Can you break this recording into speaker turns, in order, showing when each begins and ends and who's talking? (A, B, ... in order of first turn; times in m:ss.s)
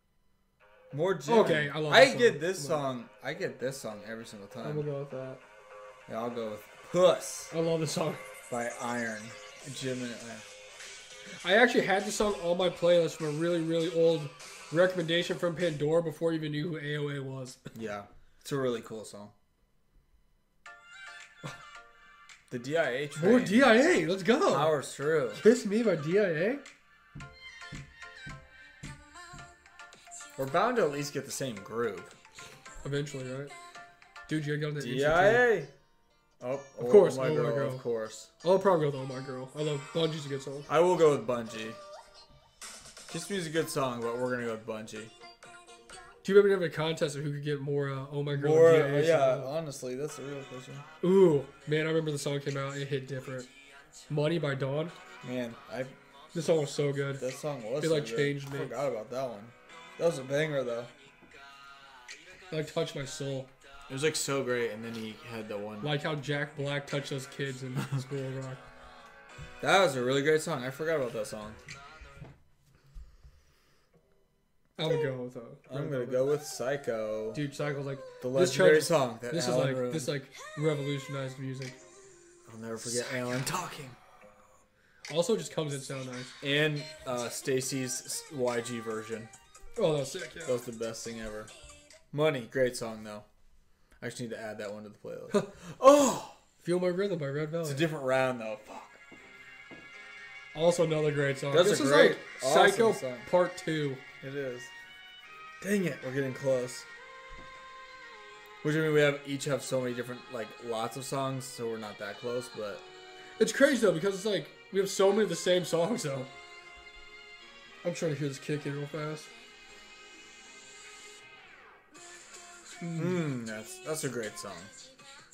0:00.9-0:04.9 A
0:01.3-0:02.8 B
0:04.6-0:05.4 B
0:06.1-0:07.5 A
0:07.5-0:08.2 B
0:08.5-0:10.5 A
0:11.4-0:17.6 B
0:17.7-0:19.4 A
0:22.5-0:23.8 A
0:23.2-0:24.7 B
0:24.5-0:25.4 A
0:25.4-0:26.6 B
0:30.4-0:32.2 A
0:32.8-0:33.5 B
0:34.3-0:35.5 B
0:34.8-0:35.7 A
0:36.4-0:38.3 A
0:36.8-0:37.8 B
0:38.4-0:40.7 B
0:40.7-0:41.8 A
0:43.1-0:45.1 A
0:46.2-0:49.5 B
0:48.3-0:50.9 A
0:51.0-0:53.5 B
0:54.1-0:55.0 B
0:55.2-0:56.0 A
0:56.3-0:57.2 B
0:57.2-1:00.9 A
0:57.8-0:58.7 B
1:02.5-1:03.5 B
1:03.9-1:06.0 A
1:05.8-1:08.6 B
1:09.6-1:11.6 A
1:14.8-1:16.3 B
1:15.7-1:17.4 A
1:17.3-1:21.8 B
1:18.2-1:20.1 A
1:22.5-1:24.0 A
1:25.1-1:26.3 B
1:26.4-1:29.3 A
1:29.8-1:30.6 B
1:30.4-1:31.5 A
1:32.1-1:33.3 A
1:34.0-1:36.4 A
1:36.6-1:37.9 B
1:37.6-1:39.0 A
1:40.5-1:44.0 B
1:41.5-1:43.3 A
1:44.2-1:44.7 A
1:45.6-1:46.9 A
1:48.6-1:52.8 A
1:53.4-1:56.3 B
1:57.8-1:59.3 B
2:02.7-2:03.2 B
2:03.0-2:04.9 A